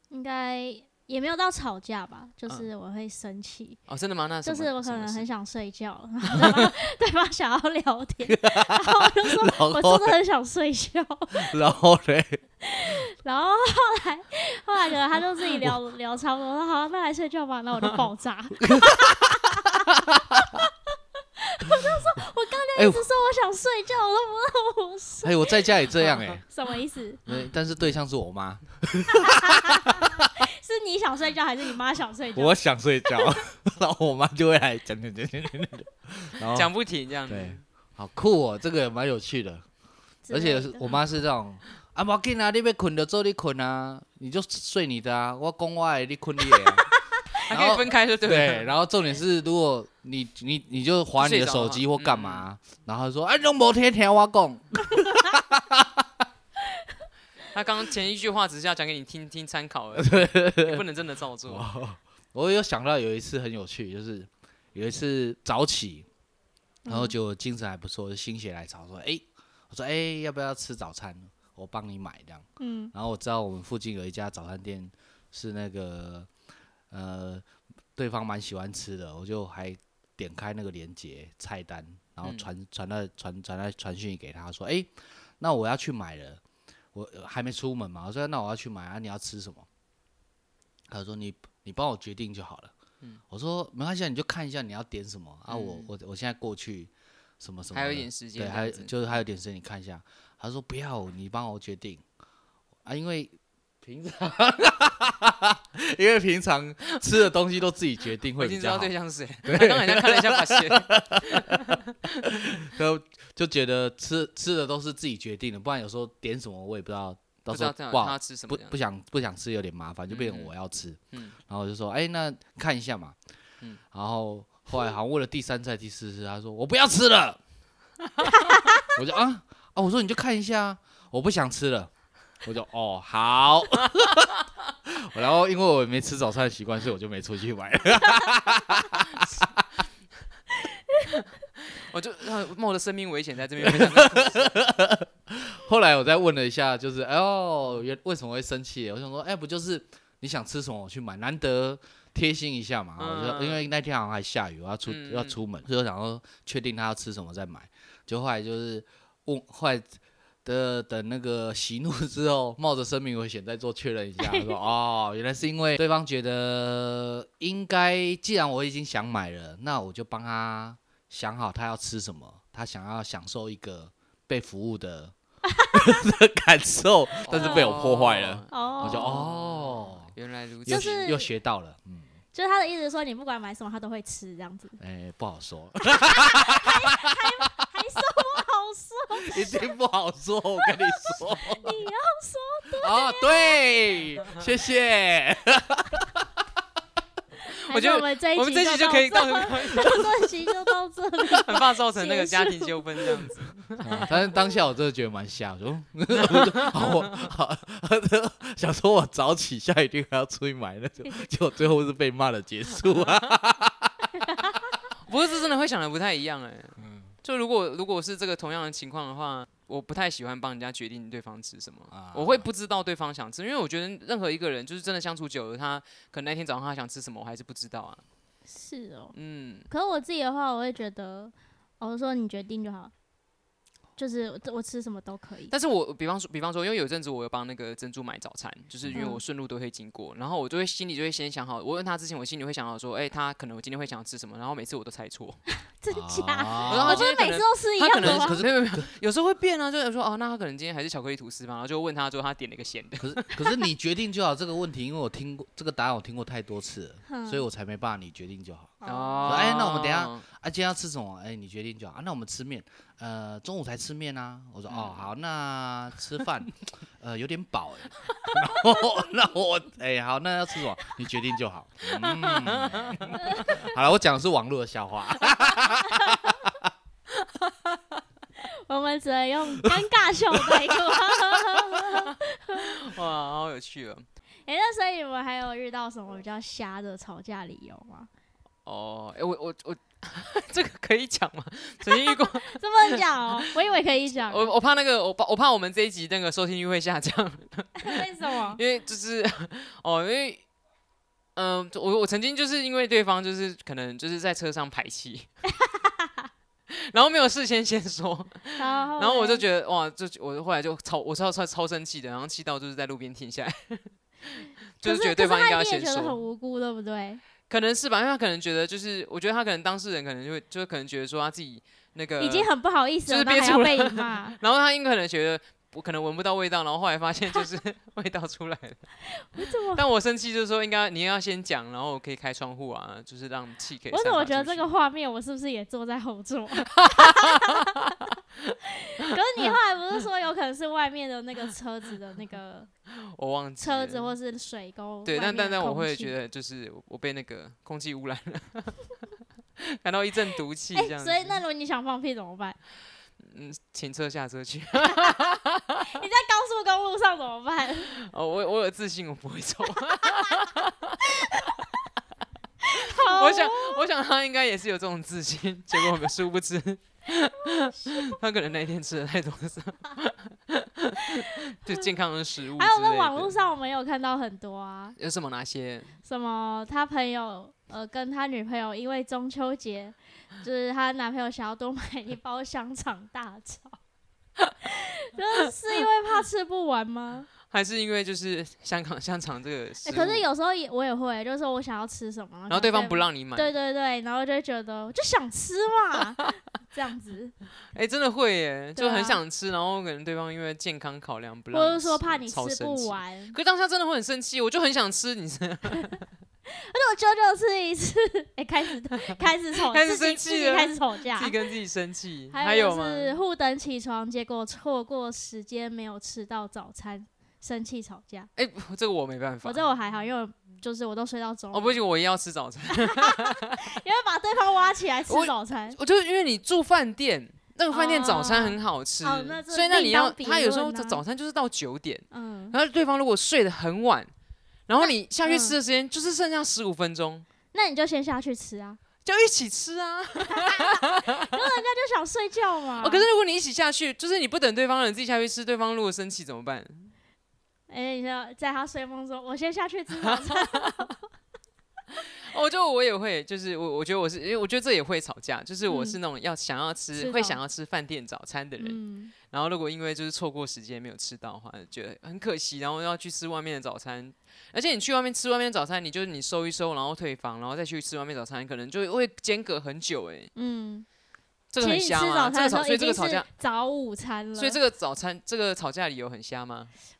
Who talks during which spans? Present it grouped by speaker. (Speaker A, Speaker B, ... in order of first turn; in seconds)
Speaker A: 0.1-3.8, 4.5-11.6, 12.6-19.8, 21.4-27.2, 29.1-33.4, 40.2-41.0, 66.8-67.1, 72.6-72.9, 164.2-164.5, 175.6-175.9, 177.3-177.8, 178.5-179.2, 180.7-181.3, 182.3-184.8, 185.9-189.7, 190.7-193.6, 197.7-203.3, 204.1-204.4, 214.2-214.7, 228.5-229.2, 229.7-232.9, 234.0-235.5, 238.9-239.2, 245.6-248.4, 257.1-257.5, 258.8-259.5, 273.2-273.7, 275.9-276.2, 278.4-282.8, 284.5-288.1, 291.9-294.5, 297.8-298.6, 305.7-306.3, 308.6-309.4, 314.8-317.2, 322.2-324.4, 329.1-329.8, 333.9-338.0, 338.7-342.7, 343.6-346.1, 350.8-352.6, 354.9-355.2, 355.9-357.9, 361.0-361.6, 362.6-363.9, 367.8-368.1, 371.0-371.8, 372.6-375.0, 376.0-383.8, 384.6-387.3, 389.9-397.3, 398.8-399.2, 401.5-403.4, 406.5-411.4, 412.3-418.3, 419.4-421.8, 422.7-425.8, 427.7-431.0, 432.1-432.5, 434.8-435.6, 437.5-438.8, 440.3-443.1, 447.7-450.9, 455.7-456.0, 456.9-457.4, 458.6-459.1, 470.4-470.9, 471.6-474.6
Speaker B: 3.9-5.3, 6.4-6.7, 36.5-37.6, 47.5-48.7, 51.2-52.5, 57.5-61.7, 82.2-82.5, 95.5-95.9, 97.7-99.0, 108.4-112.5, 117.5-118.8, 120.1-120.5, 141.1-144.5, 153.0-153.6, 154.9-155.4, 177.3-181.1, 197.7-200.2, 201.4-204.1, 206.1-207.2, 215.1-228.0, 229.1-229.7, 235.5-245.4, 246.7-253.3, 258.9-260.2, 264.7-265.1, 271.9-273.2, 277.2-277.8, 282.1-284.1, 288.7-293.5, 294.3-300.4, 301.4-305.3, 306.7-313.9, 314.8-316.2, 317.5-322.5, 323.1-328.8, 329.7-334.7, 336.7-337.7, 343.1-344.1, 345.1-348.9, 349.6-351.4, 353.2-355.9, 357.9-361.6, 362.7-373.4, 375.0-375.9, 387.5-390.2, 392.5-393.5, 397.7-406.1, 409.0-413.1, 418.4-419.6, 421.5-423.4, 425.1-434.1, 434.7-437.3, 439.1-441.3, 442.8-446.9, 449.9-450.9, 452.3-470.3, 471.5-473.3, 474.4-476.7
Speaker C: 8.3-10.2, 11.3-12.4, 18.6-20.6, 22.8-23.1, 25.2-26.4, 27.3-30.3, 32.4-36.7, 37.3-39.7, 40.3-46.9, 47.5-56.0, 60.0-60.8, 61.5-66.1, 66.9-76.3, 76.9-77.5, 78.0-86.4, 86.9-89.7, 90.9-92.7, 93.3-102.0, 102.8-108.9, 109.5-111.7, 112.2-123.2, 123.9-127.4, 128.9-131.9, 132.4-134.3, 134.9-139.6, 143.6-175.1, 175.7-180.1, 180.7-182.1, 184.8-187.2, 189.1-191.8, 192.8-196.4, 203.8-213.9, 216.8-217.1, 221.9-222.5, 245.9-247.1, 248.0-248.9, 253.0-276.7